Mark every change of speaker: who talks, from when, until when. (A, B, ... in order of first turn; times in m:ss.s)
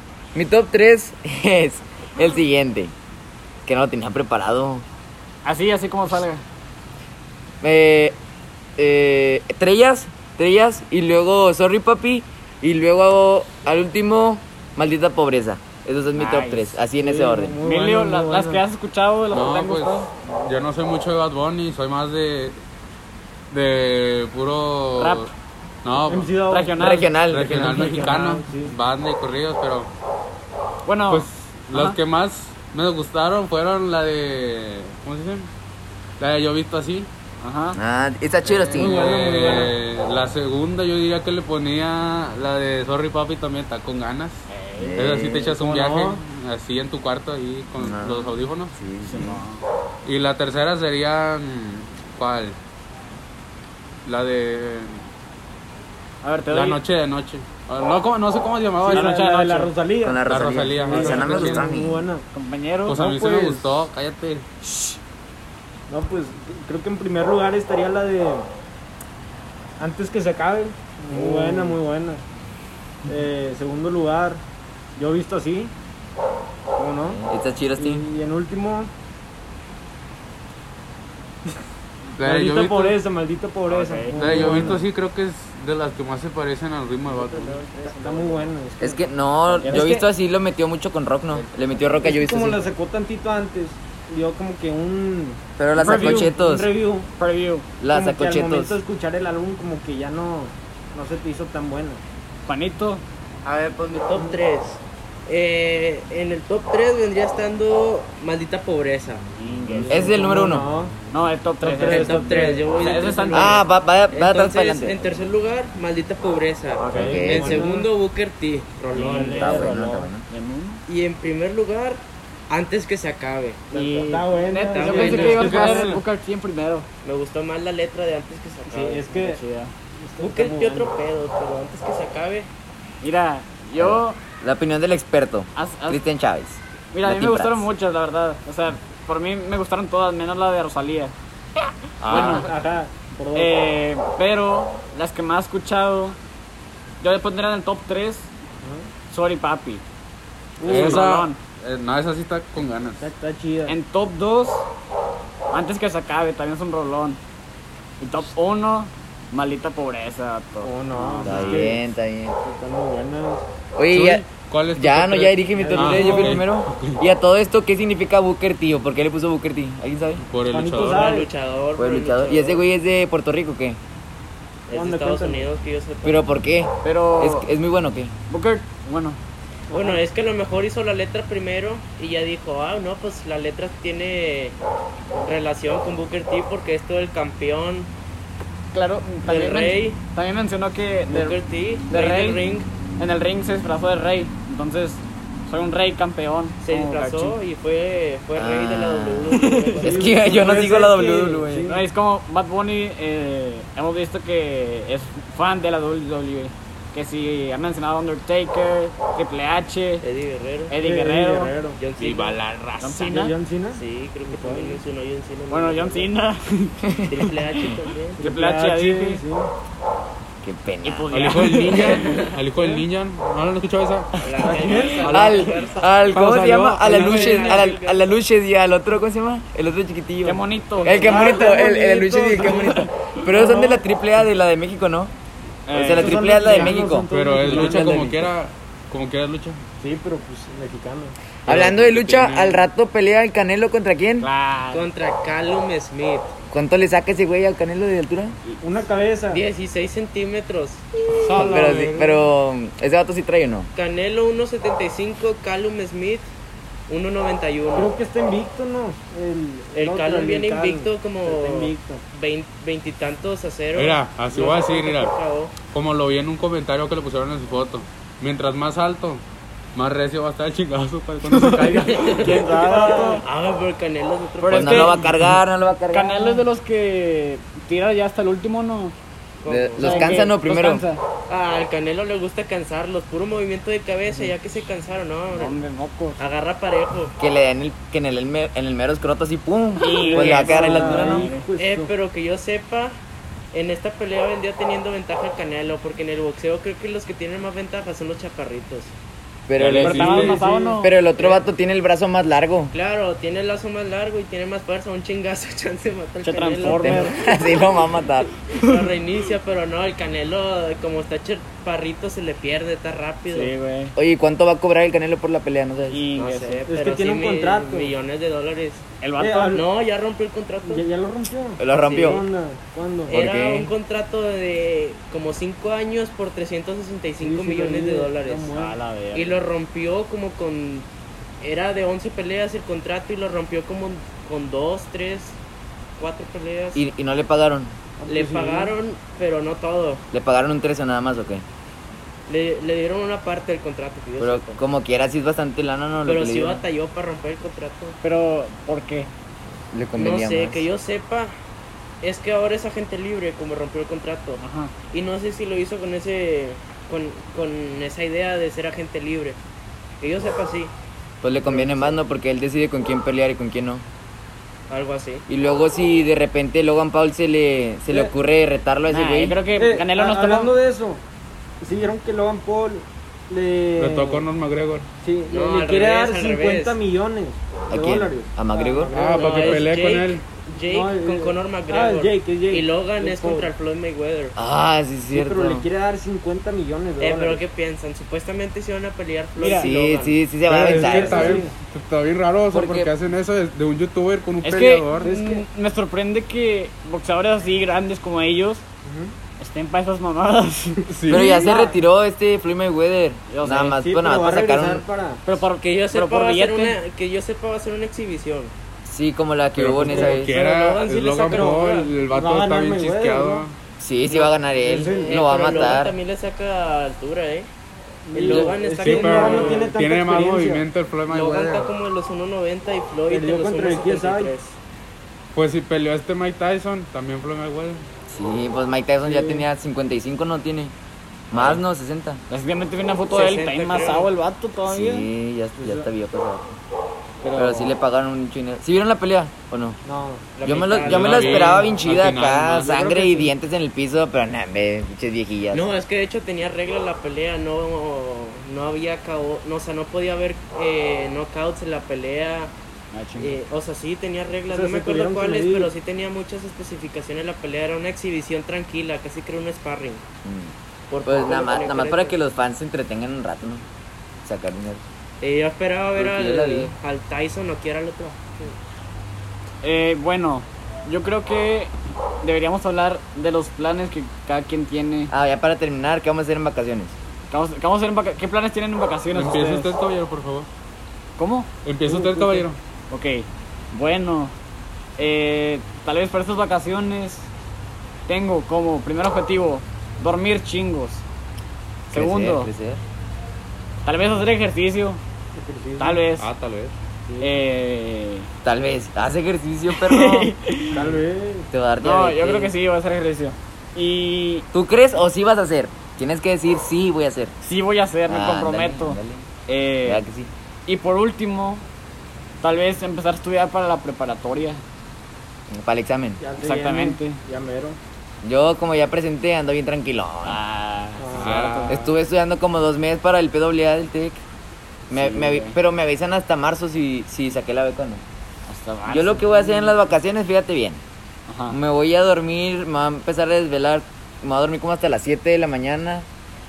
0:00.3-0:02.9 A
0:03.7-0:04.8 A
0:05.4-0:06.4 B
0:07.6-0:08.2 A
0:08.8-0:17.6 A
0:16.2-0:16.8 B
0:17.0-0:18.6 C
0:17.6-0:20.1 B
0:19.3-0:22.6 D
0:23.5-0:25.3 D
0:25.0-0:25.3 B
0:25.8-0:26.3 D
0:26.1-0:26.8 C
0:26.5-0:27.1 B
0:26.8-0:27.9 A
0:27.3-0:29.9 D
0:27.5-0:28.8 C
0:30.8-0:32.0 B
0:31.1-0:35.5 D
0:36.2-0:37.1 D
0:37.4-0:37.8 B
0:37.8-0:39.0 A
0:38.4-0:48.7 D
0:38.8-0:39.7 C
0:44.5-0:45.0 B
0:44.8-0:45.5 A
0:45.4-0:46.2 C
0:47.8-0:49.4 A
0:49.0-0:49.6 B
0:50.0-0:52.6 D
0:54.0-0:55.0 D
0:56.2-0:56.8 B
0:56.5-0:59.2 D
0:58.8-1:02.2 C
0:58.9-0:59.8 B
1:00.0-1:02.1 A
1:00.3-1:01.7 D
1:00.9-1:01.2 B
1:02.3-1:03.6 B
1:02.9-1:04.4 D
1:03.0-1:03.6 C
1:04.6-1:05.0 B
1:05.9-1:08.5 C
1:09.8-1:12.2 C
1:11.1-1:11.8 B
1:13.1-1:14.4 C
1:15.0-1:15.7 C
1:16.8-1:17.2 C
1:17.1-1:18.1 A
1:17.8-1:18.9 C
1:22.2-1:23.0 D
1:22.2-1:24.9 C
1:23.7-1:24.8 B
1:24.2-1:27.6 D
1:27.1-1:28.5 E
1:27.8-1:30.0 C
1:28.8-1:32.6 A
1:29.6-1:30.0 B
1:31.3-1:32.0 E
1:32.0-1:37.1 C
1:35.6-1:36.7 A
1:35.8-1:36.3 B
1:37.2-1:37.7 B
1:37.8-1:38.8 A
1:37.9-1:42.0 C
1:42.5-1:43.0 B
1:43.4-1:49.2 E
1:44.2-1:44.4 C
1:49.3-1:50.1 B
1:49.7-1:51.0 C
1:49.9-1:50.7 A
1:51.1-1:53.6 B
1:51.6-1:53.2 C
1:51.8-1:59.6 E
1:53.3-1:55.1 A
1:56.8-1:57.5 B
1:56.9-1:57.7 A
1:57.1-1:57.9 C
1:58.9-2:00.8 B
1:58.9-2:00.1 C
1:59.4-2:00.2 A
2:00.9-2:03.6 E
2:03.7-2:06.0 C
2:03.7-2:06.9 B
2:04.7-2:06.0 E
2:05.4-2:05.8 D
2:07.0-2:09.0 E
2:08.7-2:09.4 C
2:09.1-2:09.7 B
2:10.0-2:10.9 C
2:10.2-2:12.5 E
2:13.0-2:14.2 B
2:13.8-2:17.7 A
2:15.6-2:16.0 B
2:16.9-2:21.1 B
2:22.0-2:22.5 D
2:22.1-2:22.5 B
2:22.1-2:23.5 C
2:23.3-2:26.2 B
2:27.0-2:28.3 B
2:28.6-2:28.9 C
2:29.1-2:29.8 B
2:30.6-2:31.0 C
2:30.6-2:31.4 B
2:30.6-2:33.1 D
2:33.0-2:33.8 C
2:33.7-2:34.7 B
2:35.5-2:37.2 B
2:38.0-2:41.7 B
2:40.6-2:43.4 C
2:41.2-2:42.4 A
2:43.8-2:44.2 A
2:43.9-2:47.0 D
2:44.8-2:50.2 A
2:45.5-2:46.4 C
2:50.3-2:51.2 D
2:50.5-2:51.3 C
2:50.8-2:52.6 E
2:51.8-2:53.8 A
2:54.7-2:56.4 E
2:54.7-2:55.5 C
2:56.0-2:58.1 A
2:56.8-2:57.5 B
2:58.3-2:59.2 B
2:59.7-3:00.0 C
2:59.7-3:04.6 E
3:05.2-3:07.9 E
3:08.7-3:11.4 B
3:09.3-3:10.0 E
3:11.1-3:12.7 E
3:11.9-3:12.4 B
3:13.0-3:17.4 B
3:16.6-3:20.2 E
3:18.4-3:21.7 A
3:19.3-3:19.9 B
3:19.8-3:21.8 C
3:21.7-3:30.0 B
3:30.0-3:30.7 E
3:30.7-3:31.6 B
3:30.8-3:31.8 C
3:31.8-3:32.4 E
3:32.0-3:33.1 D
3:32.8-3:33.3 B
3:33.1-3:34.8 C
3:33.7-3:36.1 E
3:35.5-3:37.3 B
3:37.0-3:38.2 E
3:38.2-3:39.5 C
3:38.2-3:39.2 B
3:40.4-3:41.6 A
3:40.8-3:42.2 B
3:41.1-3:44.2 D
3:42.0-3:42.3 E
3:44.2-3:46.0 E
3:44.4-3:45.2 C
3:44.6-3:45.0 B
3:45.0-3:55.1 A
3:45.0-3:45.4 D
3:46.1-3:47.7 D
3:46.8-3:48.1 E
3:50.2-3:51.4 B
3:51.0-3:53.8 C
3:55.7-3:56.7 B
3:55.7-3:58.3 A
3:55.9-3:58.1 C
3:57.1-3:59.6 D
3:59.8-4:01.2 C
4:01.5-4:04.3 A
4:01.5-4:02.6 D
4:04.2-4:04.9 B
4:04.7-4:06.3 E
4:06.5-4:08.4 A
4:08.6-4:09.4 C
4:09.3-4:10.8 E
4:11.3-4:12.2 C
4:11.3-4:13.7 A
4:11.3-4:12.0 B
4:13.8-4:16.3 E
4:16.9-4:17.9 E
4:17.8-4:22.0 C
4:19.7-4:25.5 E
4:23.8-4:25.2 D
4:25.7-4:29.2 D
4:29.8-4:32.3 D
4:31.3-4:33.2 B
4:31.8-4:35.0 E
4:32.0-4:33.2 C
4:34.4-4:35.2 B
4:34.5-4:36.4 A
4:35.9-4:39.0 B
4:39.4-4:40.2 E
4:39.5-4:40.8 A
4:39.8-4:41.0 B
4:41.3-4:45.6 E
4:45.3-4:46.2 B
4:46.2-4:47.1 E
4:47.2-4:51.3 A
4:49.8-4:51.5 B
4:50.0-4:51.9 C
4:51.6-4:53.0 E
4:53.5-4:58.9 E
4:59.5-5:02.7 A
4:59.6-5:00.4 D
4:59.8-5:00.9 B
4:59.8-5:00.8 C
5:01.2-5:01.4 E
5:02.7-5:07.4 E
5:06.2-5:07.2 B
5:06.6-5:08.3 A
5:08.5-5:13.5 E
5:08.5-5:08.9 B
5:13.3-5:14.0 B
5:14.0-5:16.0 A
5:15.9-5:16.6 B
5:16.2-5:18.8 E
5:16.7-5:17.9 C
5:19.0-5:19.6 B
5:19.2-5:19.6 C
5:19.4-5:20.8 E
5:20.6-5:23.1 C
5:21.6-5:22.2 A
5:21.7-5:22.2 E
5:23.1-5:28.5 E
5:23.1-5:23.7 A
5:27.2-5:28.8 C
5:28.5-5:29.4 B
5:29.1-5:30.9 E
5:31.4-5:35.4 E
5:36.0-5:36.9 E
5:36.8-5:37.8 A
5:38.0-5:38.7 C
5:38.1-5:40.0 E
5:40.1-5:41.4 A
5:42.3-5:44.6 E
5:44.2-5:46.6 A
5:46.0-5:48.0 E
5:48.0-5:49.1 B
5:49.7-5:50.7 A
5:50.0-5:51.3 E
5:52.0-5:54.4 E
5:54.4-5:54.7 B
5:54.9-5:59.4 E
6:00.0-6:00.7 E
6:01.2-6:03.8 A
6:01.3-6:02.0 C
6:04.7-6:05.2 E
6:05.3-6:09.4 A
6:08.9-6:10.5 B
6:09.6-6:11.0 C
6:11.6-6:14.3 C
6:13.8-6:14.9 D
6:15.0-6:19.8 C
6:15.3-6:16.8 E
6:17.7-6:19.0 A
6:18.9-6:20.3 D
6:19.2-6:24.4 E
6:20.7-6:23.5 C
6:24.4-6:25.7 A
6:25.1-6:27.4 C
6:27.0-6:30.2 E
6:29.4-6:29.7 B
6:29.5-6:31.5 A
6:30.5-6:31.5 C
6:30.5-6:35.1 D
6:32.5-6:32.9 A
6:34.4-6:38.6 B
6:35.0-6:35.4 C
6:38.8-6:39.1 C
6:39.4-6:40.8 B
6:40.9-6:41.4 D
6:41.1-6:44.8 A
6:41.1-6:41.8 C
6:43.3-6:43.8 B
6:43.6-6:45.2 C
6:45.3-6:46.8 B
6:45.6-6:48.5 E
6:48.9-6:50.4 A
6:49.6-6:53.6 D
6:49.9-6:50.2 C
6:50.1-6:51.9 E
6:51.3-6:53.4 C
6:53.8-6:56.0 A
6:54.1-6:55.8 C
6:54.7-6:57.5 E
6:58.1-7:00.7 C
6:58.1-6:59.7 E
6:58.3-7:01.7 D
7:01.1-7:04.5 E
7:03.1-7:04.3 C
7:05.4-7:07.8 D
7:08.1-7:10.7 A
7:09.0-7:09.5 C
7:11.3-7:12.2 A
7:12.3-7:15.1 B
7:13.1-7:14.1 E
7:14.7-7:16.6 A
7:15.6-7:15.9 C
7:17.2-7:17.8 B
7:17.4-7:19.8 A
7:19.8-7:20.3 C
7:20.4-7:21.7 E
7:20.4-7:25.7 A
7:20.8-7:22.8 D
7:22.6-7:23.3 C
7:25.5-7:32.5 E
7:32.9-7:33.4 B
7:33.2-7:40.0 E
7:34.5-7:35.7 C
7:40.2-7:40.5 A
7:40.9-7:42.2 E
7:41.0-7:43.6 A
7:44.2-7:44.8 A
7:45.2-7:48.5 E
7:46.0-7:46.7 A
7:49.6-7:55.1 B
7:55.1-7:57.0 A
7:57.3-7:59.8 B
7:59.1-8:00.5 D
8:01.2-8:04.3 B
8:01.6-8:02.6 D
8:01.9-8:02.4 C
8:05.0-8:07.3 B
8:08.1-8:11.0 B
8:11.9-8:12.5 B
8:11.9-8:12.8 A
8:13.8-8:15.0 B
8:15.4-8:16.0 C
8:15.8-8:16.3 B
8:16.2-8:16.7 D
8:17.1-8:17.3 C
8:17.2-8:18.3 B
8:18.4-8:20.3 A
8:19.7-8:20.9 B
8:20.7-8:21.5 C
8:21.5-8:22.5 A
8:21.8-8:24.5 B
8:24.5-8:27.3 A
8:27.4-8:30.0 B
8:28.1-8:29.3 A
8:29.8-8:30.3 A
8:30.7-8:31.6 B
8:32.4-8:34.6 B
8:35.5-8:36.2 A
8:36.2-8:37.8 C
8:36.4-8:37.2 B
8:38.2-8:40.4 A
8:40.2-8:41.9 B
8:41.0-8:41.5 C
8:41.2-8:41.9 D
8:41.7-8:44.2 A
8:44.9-8:48.0 A
8:44.9-8:45.6 B
8:48.5-8:49.8 B
8:48.9-8:50.8 A
8:51.3-8:51.6 B
8:51.5-8:56.1 A